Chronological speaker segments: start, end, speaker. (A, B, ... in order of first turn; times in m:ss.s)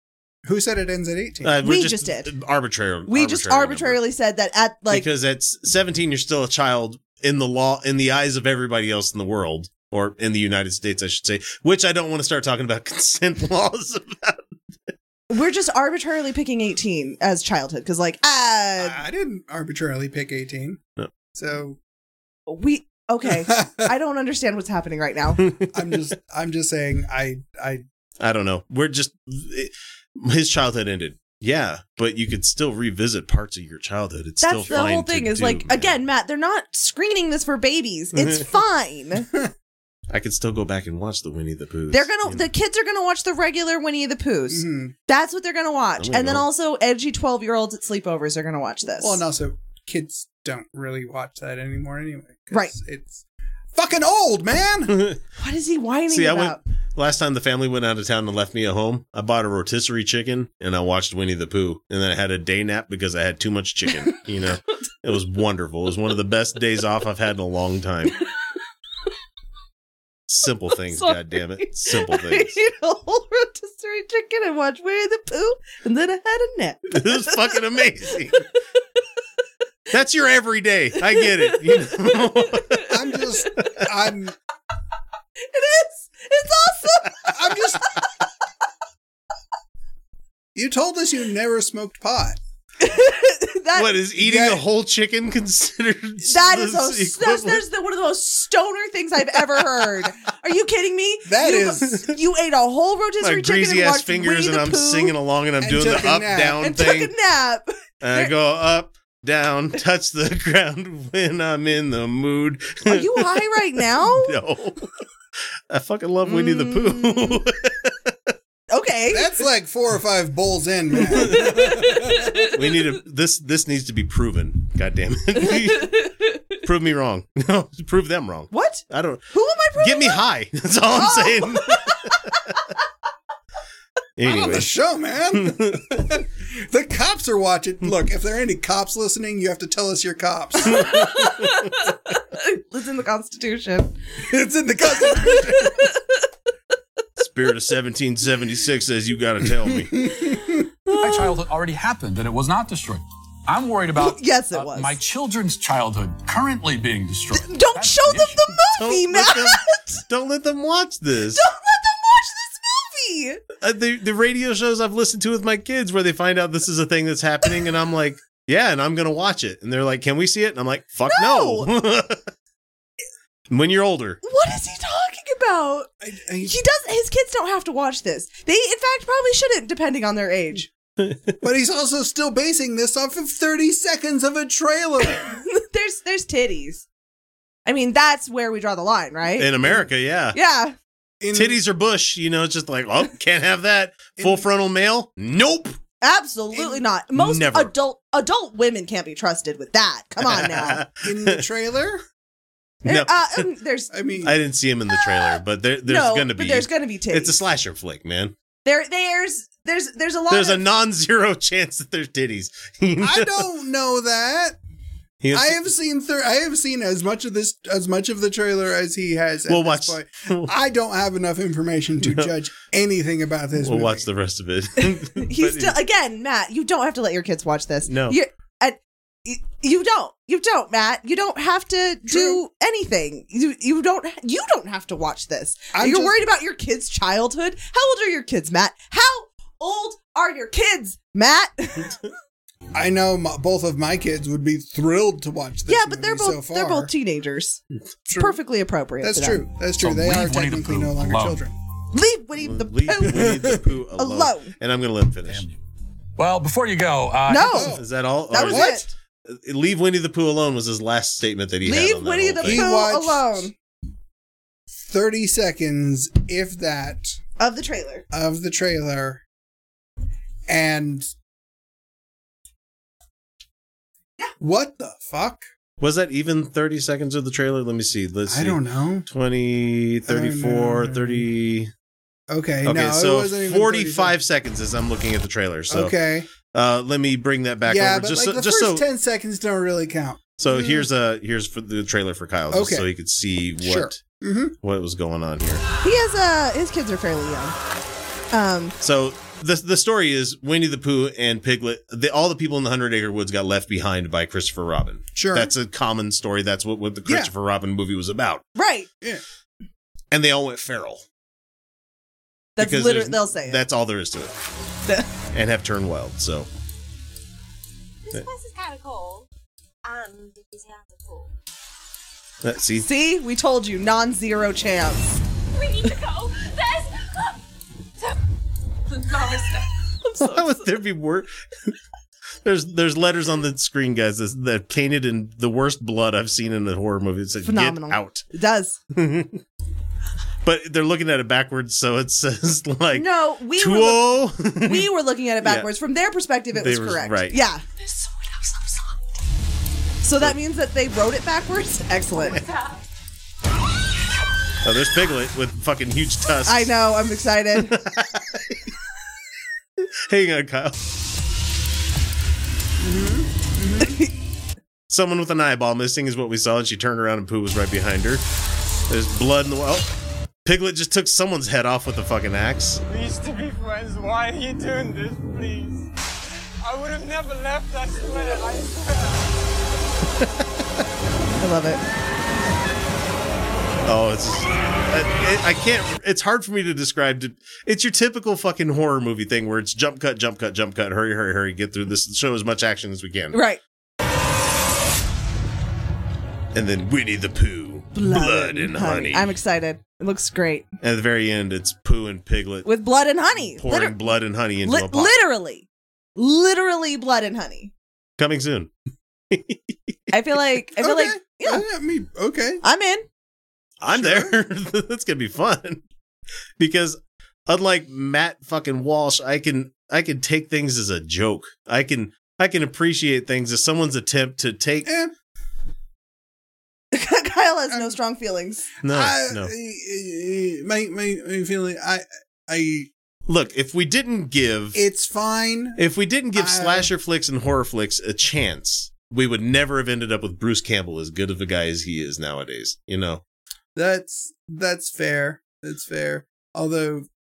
0:00.4-0:01.6 A
0:01.4-0:04.0 B
0:01.6-0:02.3 C
0:03.1-0:05.1 C
0:04.9-0:14.5 B
0:15.3-0:19.0 C
0:18.8-0:20.8 A
0:21.3-0:21.8 A
0:22.5-0:25.4 C
0:25.4-0:25.7 B
0:25.7-0:27.8 A
0:28.2-0:36.0 B
0:34.4-0:39.3 C
0:38.2-0:38.4 B
0:40.1-0:42.5 B
0:41.9-0:49.2 C
0:44.5-0:44.9 A
0:46.0-0:46.4 B
0:49.0-0:55.0 A
0:54.9-0:55.2 B
0:55.4-0:56.6 C
0:56.1-1:08.2 B
1:10.3-1:12.5 B
1:10.9-1:17.6 C
1:16.9-1:18.4 B
1:19.9-1:23.0 B
1:21.2-1:22.8 C
1:22.9-1:24.3 A
1:23.6-1:23.9 B
1:25.4-1:27.3 C
1:27.3-1:28.0 A
1:30.5-1:32.4 A
1:32.8-1:34.0 C
1:33.7-1:37.6 B
1:34.2-1:34.6 A
1:36.2-1:45.1 C
1:41.2-1:42.0 A
1:43.2-1:47.1 B
1:45.6-1:46.7 A
1:46.6-1:48.3 C
1:48.0-1:54.9 B
1:52.9-1:54.4 C
1:55.7-1:58.3 B
1:56.2-1:57.3 C
1:58.7-1:59.3 C
1:59.1-2:02.0 A
2:01.1-2:02.5 C
2:01.2-2:06.0 B
2:05.4-2:06.1 C
2:06.6-2:09.2 B
2:08.5-2:10.2 C
2:09.8-2:12.5 B
2:10.9-2:12.2 C
2:14.2-2:14.7 B
2:14.2-2:21.1 A
2:15.4-2:15.9 B
2:20.6-2:24.0 C
2:20.8-2:21.7 B
2:24.2-2:25.8 A
2:24.8-2:26.2 C
2:27.2-2:30.1 B
2:29.6-2:30.6 A
2:30.9-2:31.4 C
2:31.0-2:38.4 D
2:34.0-2:35.0 C
2:37.3-2:40.0 C
2:38.7-2:41.4 B
2:41.3-2:43.4 C
2:43.6-2:52.3 B
2:51.1-2:51.7 C
2:53.5-2:54.2 B
2:54.2-2:55.9 C
2:56.0-2:56.6 A
2:56.4-3:00.7 C
3:01.0-3:01.4 B
3:01.4-3:05.4 A
3:05.1-3:06.8 C
3:07.6-3:09.5 C
3:09.4-3:10.4 B
3:10.3-3:10.8 C
3:11.2-3:11.6 A
3:11.3-3:15.8 B
3:14.2-3:14.4 A
3:16.0-3:20.8 C
3:16.5-3:16.8 A
3:17.1-3:17.7 B
3:20.2-3:21.4 B
3:21.0-3:22.0 A
3:22.8-3:23.5 B
3:22.8-3:24.0 C
3:23.9-3:24.3 A
3:24.2-3:28.3 B
3:24.9-3:27.4 C
3:28.6-3:30.6 C
3:30.3-3:33.4 B
3:33.0-3:34.6 A
3:35.2-3:35.6 B
3:35.3-3:44.0 A
3:39.5-3:40.5 B
3:42.0-3:42.3 B
3:43.6-3:45.8 B
3:44.8-4:02.0 C
3:47.8-3:48.2 B
3:52.1-3:52.4 A
3:55.7-3:56.2 A
4:02.7-4:06.9 A
4:05.7-4:07.6 C
4:08.1-4:08.4 A
4:08.1-4:09.5 C
4:09.0-4:11.6 A
4:09.8-4:11.4 D
4:11.9-4:13.3 C
4:12.4-4:15.4 B
4:13.1-4:13.7 A
4:14.0-4:14.5 C
4:15.3-4:15.6 D
4:16.2-4:17.6 D
4:17.3-4:18.9 C
4:17.3-4:17.8 A
4:17.7-4:22.7 B
4:18.4-4:18.8 A
4:21.6-4:23.5 C
4:22.4-4:23.5 A
4:24.7-4:27.2 A
4:27.4-4:28.0 C
4:28.1-4:29.2 A
4:30.5-4:31.1 A
4:34.4-4:35.4 A
4:35.8-4:41.7 B
4:38.3-4:39.1 A
4:40.1-4:41.3 A
4:42.3-4:44.1 A
4:42.6-4:48.8 B
4:45.7-4:46.3 A
4:47.7-4:50.8 A
4:50.4-4:54.0 B
4:52.5-4:52.9 A
4:53.6-4:54.5 A
4:54.6-4:55.6 B
4:55.8-4:57.6 C
4:58.3-4:58.8 C
4:58.8-5:08.4 B
5:05.1-5:05.5 A
5:07.0-5:07.3 A
5:08.6-5:08.9 C
5:10.1-5:11.0 B
5:12.6-5:13.6 C
5:12.6-5:14.3 B
5:15.3-5:16.5 B
5:18.0-5:19.3 E
5:19.8-5:21.3 E
5:22.4-5:22.9 B
5:22.8-5:25.2 C
5:25.5-5:27.4 E
5:28.9-5:29.8 E
5:30.0-5:30.6 C
5:30.2-5:31.7 B
5:32.4-5:38.3 B
5:37.4-5:38.8 C
5:38.9-5:39.4 B
5:40.4-5:44.9 B
5:42.9-5:47.6 C
5:45.4-5:45.7 B
5:46.5-5:47.4 B
5:47.8-5:49.0 E
5:50.0-5:52.4 C
5:52.4-5:52.8 E
5:54.6-5:56.7 B
5:56.4-5:57.8 C
5:57.6-5:58.6 B
6:00.1-6:00.8 B
6:02.8-6:04.0 A
6:03.8-6:04.1 C
6:04.9-6:08.2 B
6:08.9-6:09.9 B
6:10.4-6:12.8 B
6:12.8-6:15.9 F
6:16.6-6:19.4 F
6:21.4-6:21.8 C
6:23.8-6:33.4 B
6:33.3-6:33.6 C
6:36.5-6:39.3 B
6:37.9-6:40.7 C
6:40.8-6:42.7 B
6:42.6-6:44.0 C
6:43.4-6:45.2 B
6:44.6-6:45.6 C
6:46.2-6:47.7 C
6:48.2-6:48.7 B
6:49.3-6:50.0 B
6:50.1-6:51.6 C
6:50.8-6:52.6 A
6:52.6-6:53.0 C
6:53.8-6:55.8 B
6:53.9-6:54.3 A
6:56.6-7:04.9 B
7:04.8-7:05.1 A
7:06.9-7:08.7 C
7:07.7-7:08.0 A
7:08.8-7:09.5 B
7:08.9-7:12.9 A
7:13.3-7:14.8 B
7:14.7-7:15.8 A
7:15.8-7:23.2 B
7:16.3-7:16.9 A
7:23.7-7:27.1 A